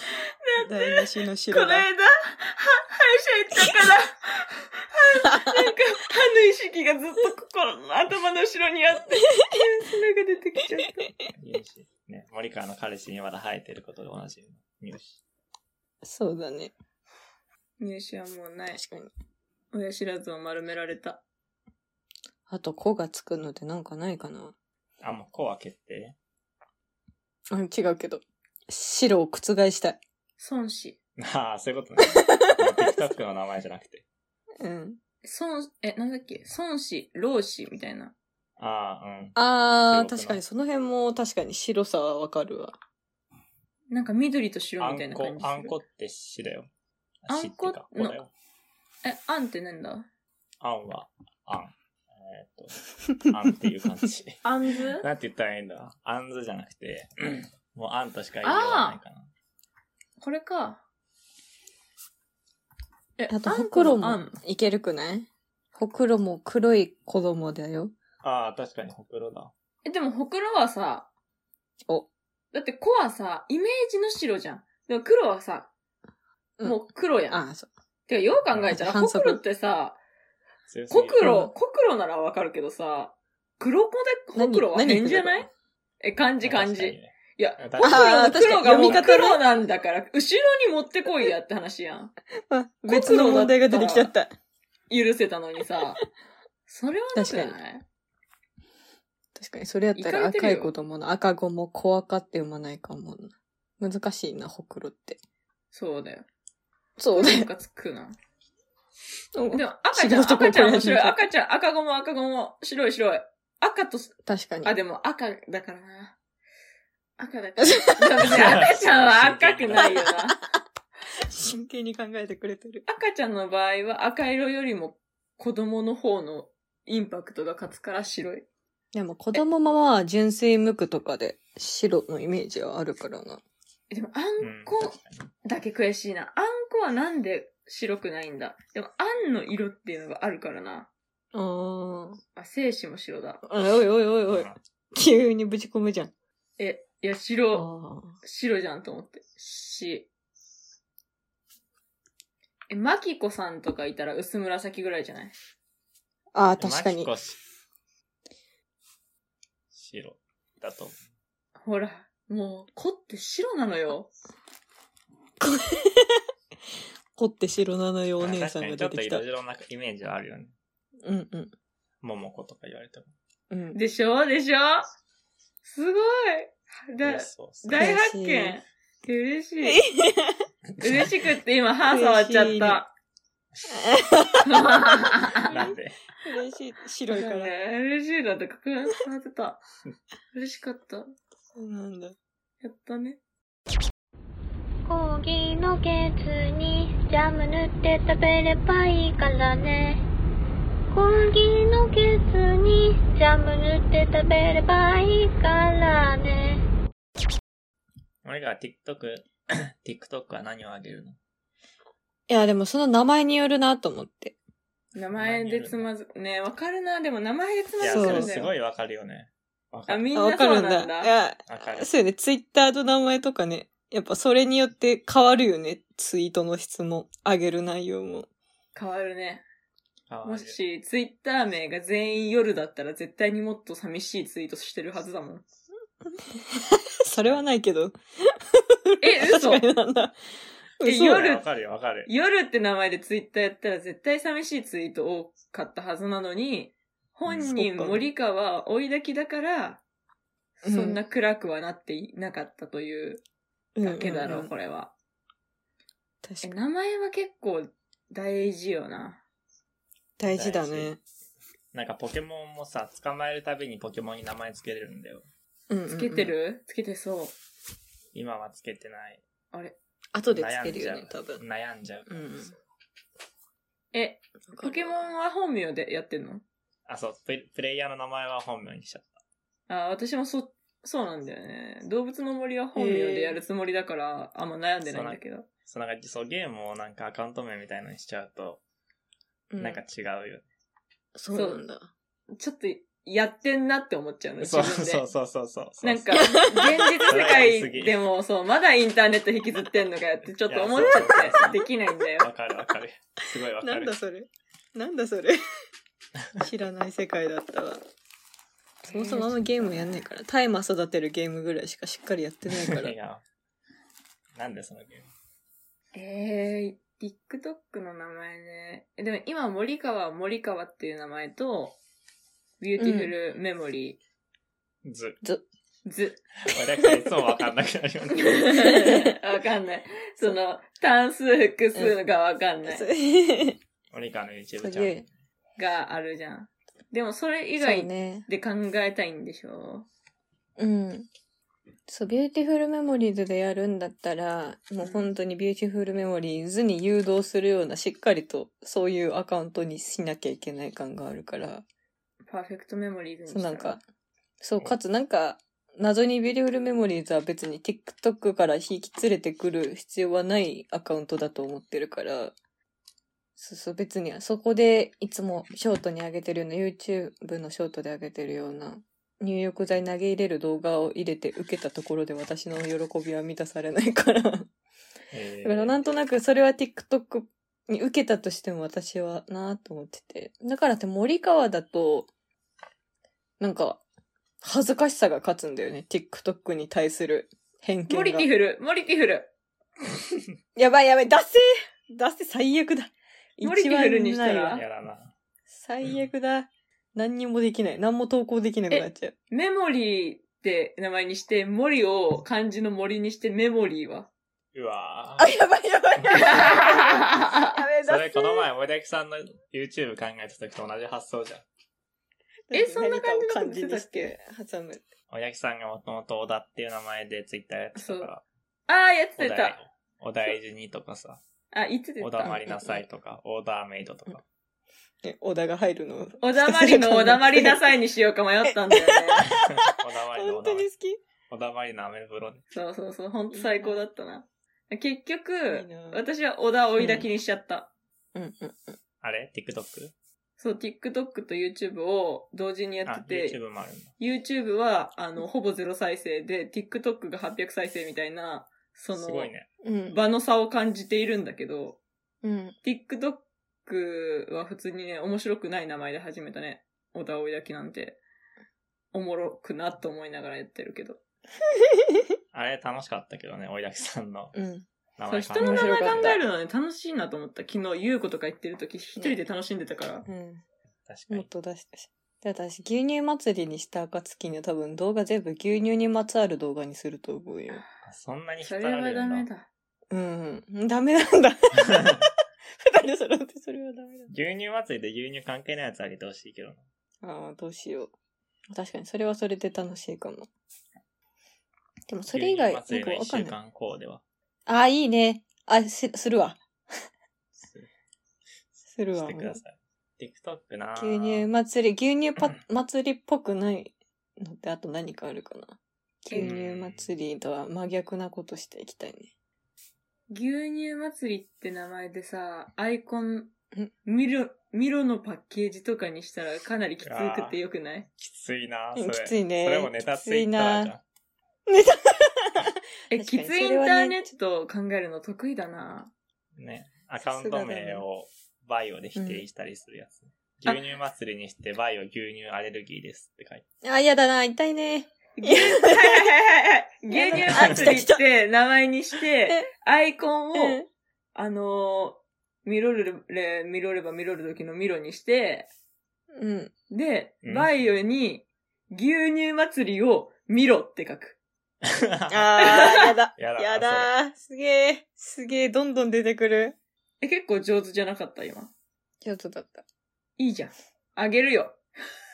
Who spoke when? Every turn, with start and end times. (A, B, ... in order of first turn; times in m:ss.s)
0:00.4-0:11.2 A
0:00.6-0:01.9 B
0:05.3-0:05.7 B
0:11.4-0:15.2 C
0:16.0-0:16.7 B
0:17.8-0:18.8 A
0:18.8-0:19.1 B
0:19.7-0:21.2 A
0:22.5-0:24.6 B
0:25.0-0:26.2 C
0:27.5-0:30.0 B
0:30.4-0:31.0 A
0:31.2-0:34.0 C
0:32.2-0:32.4 B
0:34.6-0:35.0 B
0:35.2-0:38.1 A
0:38.6-0:40.4 C
0:39.4-0:42.8 B
0:43.9-0:45.8 A
0:44.8-0:46.7 C
0:47.2-0:48.3 C
0:47.3-0:48.2 A
0:49.0-0:50.1 A
0:50.6-0:54.4 C
0:54.4-0:55.0 A
0:55.0-0:59.3 C
0:58.4-0:59.0 A
1:00.2-1:00.8 A
1:03.2-1:04.4 A
1:03.3-1:07.9 B
1:08.2-1:09.5 C
1:09.8-1:11.1 A
1:12.5-1:15.7 A
1:16.6-1:17.7 B
1:16.6-1:17.4 A
1:18.1-1:20.0 A
1:18.5-1:18.8 C
1:18.7-1:19.4 B
1:20.7-1:21.3 C
1:20.9-1:25.5 A
1:21.2-1:21.5 B
1:24.3-1:25.5 B
1:26.0-1:32.1 A
1:26.4-1:29.1 C
1:27.8-1:29.4 B
1:32.5-1:34.3 B
1:32.9-1:34.1 A
1:34.9-1:36.0 A
1:36.7-1:37.8 A
1:37.1-1:37.6 B
1:39.4-1:45.2 B
1:40.0-1:40.7 A
1:45.7-1:46.3 A
1:47.0-1:47.5 B
1:47.1-1:48.2 A
1:49.4-1:51.2 B
1:49.5-1:54.1 A
1:54.3-1:54.8 B
1:54.6-1:56.2 A
1:57.2-2:00.4 A
1:57.6-1:58.4 B
1:58.3-2:00.1 C
2:01.3-2:02.8 B
2:02.9-2:08.5 A
2:08.9-2:13.4 B
2:13.9-2:20.9 A
2:14.4-2:15.1 C
2:21.3-2:22.2 B
2:22.4-2:23.4 A
2:23.4-2:26.1 B
2:24.3-2:24.6 C
2:26.6-2:27.7 A
2:27.5-2:28.2 B
2:28.2-2:30.1 A
2:32.7-2:35.3 A
2:36.4-2:37.1 B
2:36.6-2:37.4 C
2:39.7-2:41.0 C
2:41.6-2:44.1 A
2:45.4-2:46.2 B
2:47.2-2:49.2 B
2:48.2-2:50.5 C
2:51.0-2:51.5 B
2:52.0-2:53.1 C
2:53.5-2:53.8 B
2:53.7-2:54.8 A
2:55.6-2:59.8 A
2:57.0-2:57.9 C
2:57.8-2:58.6 B
2:59.6-3:00.4 B
3:00.7-3:01.1 C
3:00.8-3:02.9 A
3:01.9-3:02.8 B
3:03.7-3:04.9 B
3:04.5-3:05.7 A
3:05.5-3:06.0 C
3:06.2-3:07.5 B
3:07.1-3:09.6 A
3:10.3-3:11.1 A
3:11.6-3:12.2 B
3:12.6-3:13.2 A
3:14.9-3:20.0 D
3:20.9-3:26.6 D
3:28.2-3:31.2 C
3:32.3-3:34.4 B
3:34.9-3:38.5 A
3:35.2-3:35.9 C
3:37.8-3:40.1 C
3:37.9-3:38.4 B
3:39.9-3:41.1 A
3:40.2-3:48.3 B
3:41.5-3:41.9 C
3:48.7-3:49.4 A
3:50.1-3:50.6 C
3:50.2-3:55.4 A
3:56.5-3:58.0 B
3:57.1-3:57.4 C
3:58.9-4:00.2 B
3:59.0-3:59.6 A
4:00.8-4:01.4 B
4:00.8-4:01.4 A
4:01.2-4:02.1 C
4:02.1-4:09.8 A
4:07.3-4:07.5 C
4:07.4-4:08.0 B
4:10.6-4:13.2 A
4:10.6-4:11.0 B
4:13.8-4:14.5 B
4:13.8-4:14.9 A
4:16.2-4:16.6 B
4:16.4-4:19.2 A
4:20.2-4:21.0 B
4:20.2-4:21.0 C
4:21.7-4:25.3 C
4:25.7-4:26.3 B
4:25.9-4:27.4 A
4:28.1-4:29.2 C
4:29.5-4:29.8 A
4:30.1-4:31.4 B
4:30.3-4:32.3 C
4:32.1-4:32.6 B
4:33.9-4:36.4 A
4:34.5-4:35.0 B
4:36.9-4:39.1 C
4:39.7-4:45.5 A
4:42.8-4:43.4 B
4:44.9-4:48.6 C
4:49.5-4:49.8 B
4:49.6-4:50.5 C
4:51.2-4:51.9 B
4:51.3-4:51.6 A
4:52.4-4:55.1 A
4:54.4-4:58.0 C
4:55.8-5:02.3 A
4:56.1-4:57.2 B
5:00.5-5:01.6 C
5:00.8-5:01.7 B
5:02.2-5:04.0 C
5:03.6-5:05.4 B
5:06.4-5:07.8 B
5:08.8-5:12.9 B
5:08.9-5:10.0 A
5:12.5-5:13.2 C
5:14.4-5:15.1 C
5:15.9-5:21.8 A
5:22.6-5:24.0 A
5:22.8-5:23.1 B
5:24.8-5:25.2 C
5:25.8-5:26.2 A
5:26.5-5:28.6 C
5:26.9-5:27.3 B
5:28.2-5:32.9 A
5:28.6-5:29.1 B
5:32.7-5:33.6 B
5:33.9-5:35.1 C
5:34.6-5:35.0 B
5:35.6-5:39.9 A
5:37.6-5:38.3 B
5:40.6-5:41.1 B
5:41.9-5:51.6 B
5:44.8-5:45.1 A
5:52.3-5:53.8 A
5:53.3-5:53.8 B
5:54.4-6:02.4 B
6:03.4-6:14.5 B
6:15.1-6:15.8 C
6:15.4-6:22.1 B
6:23.4-6:23.8 B
6:24.4-6:28.3 B
6:27.9-6:29.3 A
6:30.6-6:34.6 B
6:33.4-6:34.6 A
6:34.5-6:35.1 C
6:35.5-6:39.2 B
6:38.7-6:44.1 A
6:44.5-6:45.3 C
6:45.2-6:48.5 B
6:46.0-6:46.6 C
6:46.1-6:47.4 A
6:47.8-6:51.4 C
6:52.5-6:54.8 B
6:52.5-6:54.1 A
6:55.1-6:58.2 C
6:57.8-6:58.1 A
6:58.7-6:59.6 A
6:59.2-7:01.2 C
7:01.5-7:02.4 A
7:02.0-7:04.2 C
7:02.2-7:02.8 B
7:05.0-7:07.7 B
7:06.2-7:09.3 A
7:08.5-7:11.0 B
7:09.6-7:10.7 C
7:11.3-7:12.4 C
7:12.5-7:17.7 A
7:13.3-7:13.8 B
7:15.5-7:16.0 B
7:16.8-7:17.1 B
7:18.2-7:18.8 B
7:19.0-7:19.9 C
7:20.4-7:23.4 A
7:22.9-7:23.9 C
7:24.0-7:29.3 A
7:28.9-7:29.5 C
7:29.6-7:30.0 B
7:29.9-7:31.8 A
7:32.2-7:32.6 B
7:32.6-7:38.0 A
7:38.9-7:41.0 A
7:41.7-7:42.0 B
7:42.3-7:44.4 C
7:44.3-7:44.7 B
7:45.0-7:46.2 C
7:45.1-7:50.1 A
7:45.4-7:46.2 B
7:49.0-7:49.2 B
7:50.1-7:50.4 B
7:50.9-7:51.3 C
7:51.1-7:57.6 B
7:57.8-7:59.3 C
7:58.4-7:59.5 A
7:59.9-8:02.1 B
8:02.6-8:04.1 B
8:04.1-8:06.6 C
8:07.0-8:07.9 B
8:08.5-8:10.3 B
8:11.9-8:13.4 B
8:12.1-8:14.0 C
8:14.5-8:16.4 B
8:17.4-8:17.7 C
8:18.6-8:21.3 C
8:18.7-8:19.4 B
8:20.8-8:29.1 B
8:26.2-8:26.9 C
8:30.1-8:33.3 A
8:33.8-8:37.9 A
8:36.8-8:37.4 C
8:38.0-8:40.8 C
8:38.8-8:40.7 B
8:41.5-8:44.1 B
8:42.9-8:45.9 A
8:46.4-8:53.4 C
8:47.0-8:47.8 B
8:49.0-8:49.3 B
8:53.6-8:56.1 B
8:55.2-9:00.6 A
8:56.9-8:58.0 B
8:57.3-8:57.8 C
9:00.4-9:00.7 B
9:01.2-9:05.5 A
9:06.1-9:06.5 B
9:06.7-9:11.2 A
9:07.2-9:07.8 C
9:11.9-9:13.9 C
9:12.1-9:16.6 B
9:12.4-9:12.9 A
9:17.0-9:18.5 A
9:19.0-9:19.6 B
9:20.2-9:21.6 A